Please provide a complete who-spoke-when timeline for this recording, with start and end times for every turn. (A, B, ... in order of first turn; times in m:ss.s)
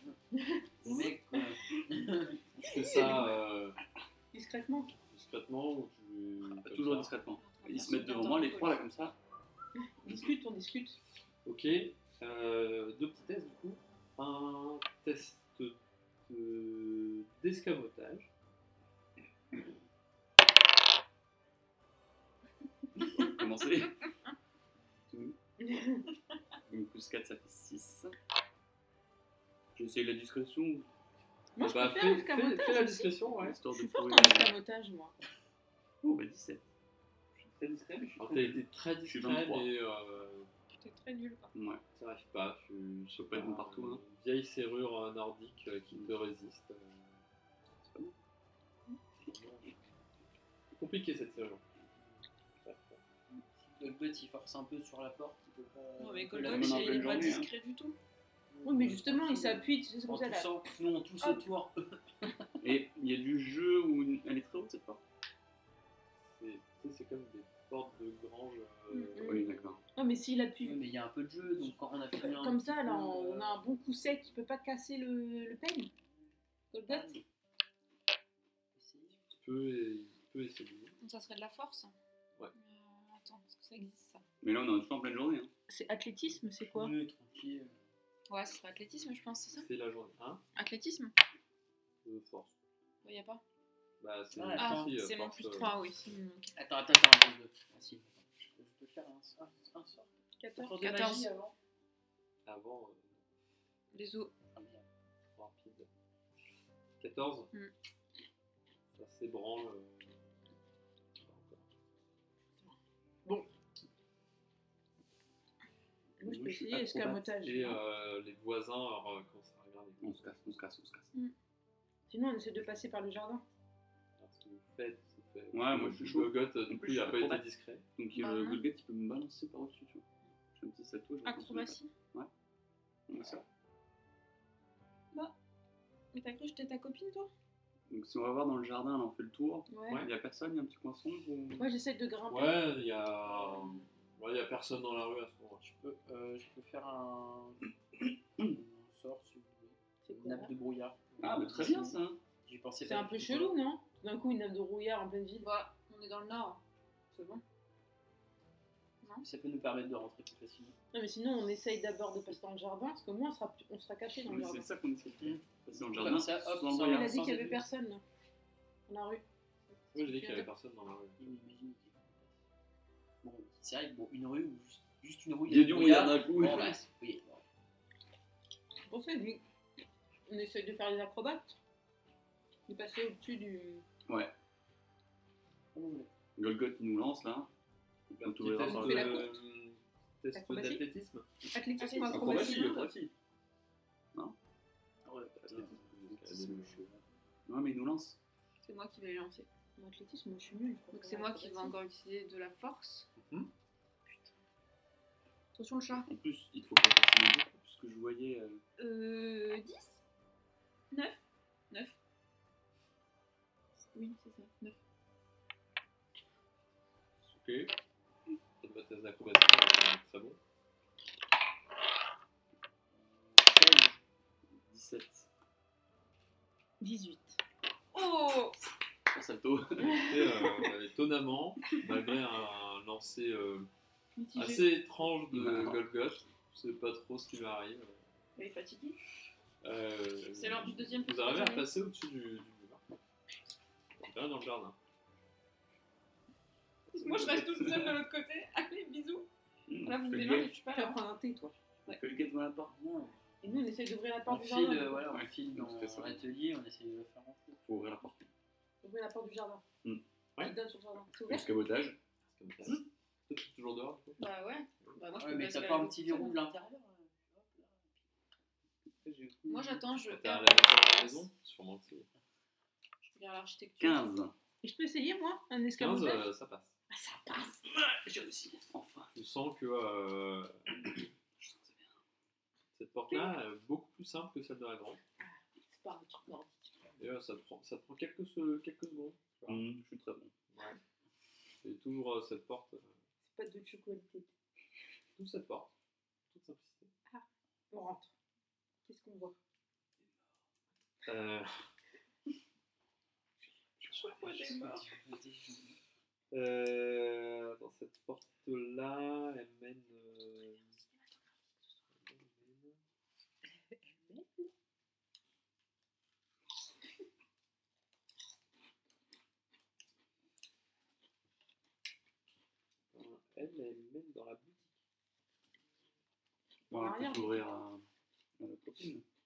0:00.4-0:01.5 A
0:00.8-0:02.4 B
0:02.6-0:03.8 C
0:02.6-0:03.3 A
0:04.3-0:04.9 A
0:05.1-0:07.1 C
0:06.5-0:09.2 D
0:07.4-0:08.8 E
0:09.8-0:11.0 A
0:11.4-0:18.3 C
0:23.0-0:24.0 D
0:25.1-0:25.4 D
0:25.6-0:26.1 A
0:26.7-0:28.1 D
0:29.7-0:30.9 D
0:31.6-0:35.1 A
0:31.6-0:33.6 C
0:33.3-0:34.6 D
0:36.0-0:36.7 D
0:37.4-0:39.7 D
0:38.2-0:40.5 C
0:40.8-0:41.5 E
0:41.5-0:41.8 D
0:41.9-0:47.2 C
0:43.1-0:44.0 D
0:47.8-0:48.1 D
0:49.2-0:49.9 C
0:50.7-0:51.6 C
0:52.6-0:53.0 C
0:53.3-0:57.4 B
0:56.0-0:58.0 E
0:56.4-0:57.5 D
0:58.6-1:02.5 B
0:58.6-1:00.5 A
1:02.6-1:05.0 D
1:06.2-1:09.8 C
1:09.1-1:10.8 A
1:09.2-1:09.8 D
1:10.6-1:13.6 B
1:12.2-1:15.9 A
1:16.7-1:17.2 A
1:16.9-1:17.2 B
1:18.8-1:19.2 B
1:19.3-1:20.9 C
1:21.0-1:21.9 E
1:22.5-1:24.2 E
1:24.4-1:25.5 D
1:25.7-1:26.9 A
1:26.6-1:27.8 B
1:28.3-1:29.7 E
1:29.5-1:30.4 C
1:30.5-1:31.1 E
1:32.0-1:32.6 C
1:33.0-1:33.4 E
1:34.0-1:35.7 C
1:34.3-1:34.9 B
1:34.6-1:36.5 E
1:36.5-1:41.5 B
1:40.4-1:40.8 A
1:40.8-1:41.3 E
1:42.5-1:43.2 C
1:43.9-1:44.3 E
1:44.5-1:44.9 B
1:45.4-1:45.9 C
1:47.0-1:47.5 C
1:48.9-1:50.3 C
1:51.2-1:51.7 C
1:52.6-1:53.5 A
1:56.2-1:57.8 A
1:56.2-1:57.2 D
1:57.3-2:00.4 C
2:00.0-2:01.1 D
2:02.1-2:03.4 A
2:04.2-2:07.8 C
2:05.5-2:12.3 D
2:08.2-2:08.6 E
2:11.2-2:11.9 E
2:13.1-2:13.4 D
2:16.1-2:17.3 E
2:17.9-2:21.7 D
2:19.7-2:20.0 A
2:21.6-2:22.6 A
2:22.3-2:25.7 C
2:23.5-2:23.7 B
2:25.6-2:27.7 B
2:28.4-2:33.6 B
2:30.0-2:30.5 A
2:31.2-2:32.2 D
2:32.8-2:35.5 A
2:35.4-2:37.4 E
2:39.2-2:40.8 B
2:40.9-2:44.7 A
2:44.2-2:47.2 D
2:45.8-2:47.6 B
2:46.8-2:48.0 A
2:48.9-2:49.2 A
2:49.9-2:50.4 A
2:49.9-2:51.3 C
2:51.2-2:52.3 B
2:53.2-2:57.4 B
2:55.5-2:56.8 D
2:58.9-2:59.4 A
3:00.3-3:01.6 A
3:02.7-3:03.8 A
3:04.1-3:04.3 D
3:05.7-3:06.1 B
3:06.4-3:07.5 D
3:08.1-3:09.3 D
3:08.2-3:11.2 C
3:08.6-3:09.4 A
3:10.3-3:10.8 A
3:11.5-3:12.8 A
3:11.8-3:12.9 E
3:12.1-3:13.1 D
3:15.0-3:17.0 B
3:15.3-3:16.5 D
3:15.5-3:16.9 C
3:17.5-3:18.2 D
3:18.6-3:19.5 E
3:19.8-3:21.8 A
3:20.9-3:23.1 E
3:23.2-3:23.5 C
3:25.5-3:26.1 E
3:26.0-3:28.6 D
3:28.8-3:30.0 E
3:30.9-3:32.0 E
3:33.9-3:34.8 E
3:37.3-3:37.7 C
3:38.6-3:40.4 C
3:43.3-3:43.9 B
3:44.5-3:45.3 D
3:46.8-3:47.4 A
3:47.9-3:48.6 E
3:49.1-3:50.2 D
3:49.8-3:53.7 C
3:54.2-3:54.7 E
3:54.3-3:58.0 C
3:55.3-3:55.8 D
3:58.4-3:59.0 E
3:59.6-4:02.8 C
4:00.3-4:01.7 E
4:04.0-4:04.8 C
4:06.9-4:09.3 E
4:07.4-4:07.9 D
4:09.7-4:10.6 D
4:09.8-4:11.0 E
4:10.7-4:11.6 A
4:11.9-4:12.7 D
4:12.7-4:13.6 B
4:13.4-4:15.2 A
4:14.2-4:17.6 B
4:15.1-4:16.3 D
4:17.6-4:18.3 D
4:18.8-4:19.6 A
4:20.4-4:21.5 A
4:21.3-4:22.0 D
4:22.2-4:24.2 C
4:24.2-4:26.4 E
4:25.2-4:27.9 B
4:29.0-4:29.8 D
4:29.5-4:31.3 E
4:30.0-4:32.1 C
4:33.0-4:34.2 E
4:33.8-4:34.3 D
4:34.6-4:36.3 A
4:35.8-4:36.7 C
4:36.9-4:37.6 A
4:37.7-4:39.1 D
4:39.1-4:40.6 C
4:41.4-4:42.0 D
4:42.7-4:45.0 C
4:45.2-4:46.7 A
4:47.0-4:49.6 C
4:49.5-4:50.3 D
4:50.5-4:50.8 C
4:51.6-4:52.9 C
4:53.2-4:54.3 A
4:55.2-4:55.7 C
4:56.3-4:56.9 C
4:57.1-4:58.1 A
4:58.8-4:59.4 A
5:01.0-5:01.7 C
5:03.9-5:04.8 E
5:04.2-5:05.8 B
5:06.3-5:10.7 C
5:12.0-5:12.8 C
5:13.9-5:14.5 A
5:22.9-5:24.7 C
5:26.7-5:27.5 A
5:26.7-5:27.8 D
5:28.4-5:29.0 D